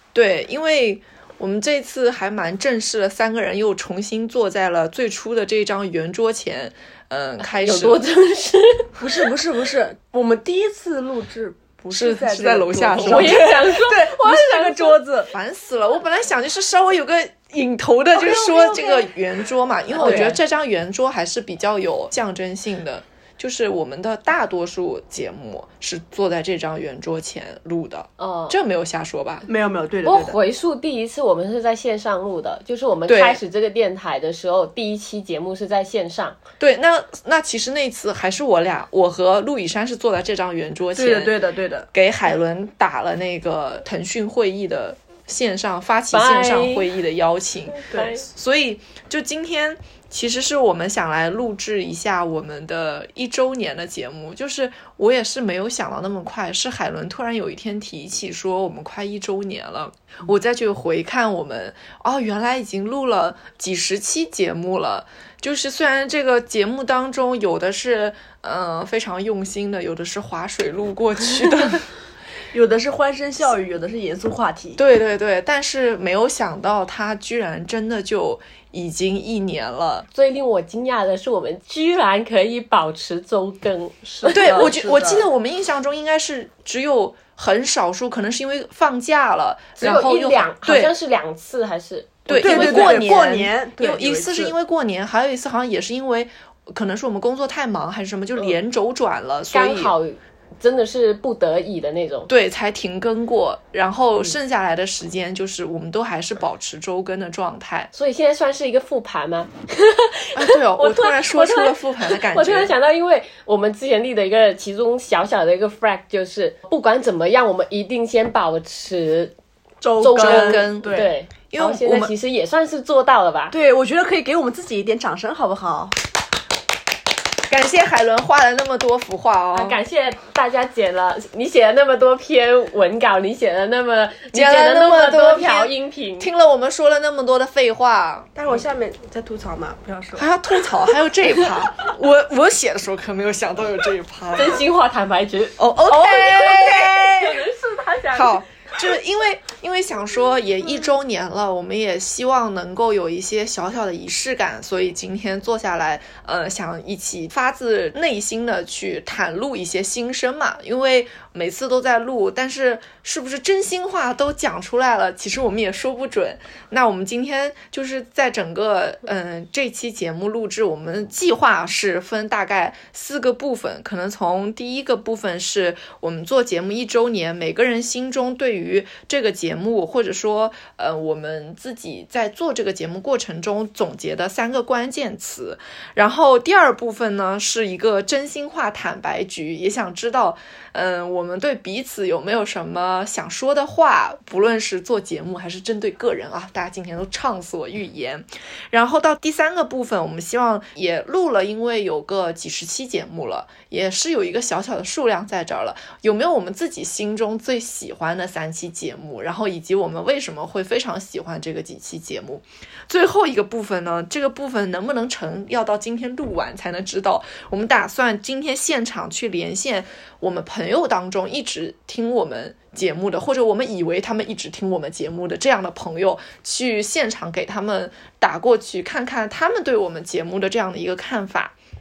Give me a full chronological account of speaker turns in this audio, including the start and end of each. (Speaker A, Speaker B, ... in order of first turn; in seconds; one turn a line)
Speaker A: 0.1-8.0
Speaker B: 7.4-9.2
Speaker C: 9.0-15.3
Speaker A: 11.9-13.7
Speaker B: 13.0-15.0
Speaker A: 15.3-29.5
Speaker B: 18.2-19.1
Speaker B: 20.0-20.3
Speaker C: 20.0-20.4
Speaker B: 28.2-28.6
Speaker C: 29.5-30.4
Speaker B: 30.0-36.4
Speaker A: 33.1-33.4
Speaker A: 36.6-41.4
Speaker C: 40.9-41.9
Speaker A: 41.9-71.8
Speaker B: 46.1-46.9
Speaker B: 47.7-48.2
Speaker C: 72.5-74.8
Speaker A: 74.8-80.1
Speaker B: 80.1-84.6
Speaker C: 84.0-85.2
Speaker A: 84.3-90.9
Speaker B: 89.8-93.0
Speaker A: 92.3-99.9
Speaker C: 92.3-94.5
Speaker B: 99.5-102.3
Speaker A: 102.3-107.9
Speaker B: 107.9-119.3
Speaker A: 110.3-112.7
Speaker C: 119.8-121.1
Speaker B: 120.0-123.5
Speaker A: 120.1-122.1
Speaker C: 123.5-125.9
Speaker A: 127.5-129.8
Speaker B: 129.5-136.3
Speaker A: 134.3-138.3
Speaker C: 138.3-140.3
Speaker A: 140.1-144.6
Speaker B: 144.3-148.4
Speaker A: 145.6-147.4
Speaker A: 148.1-231.5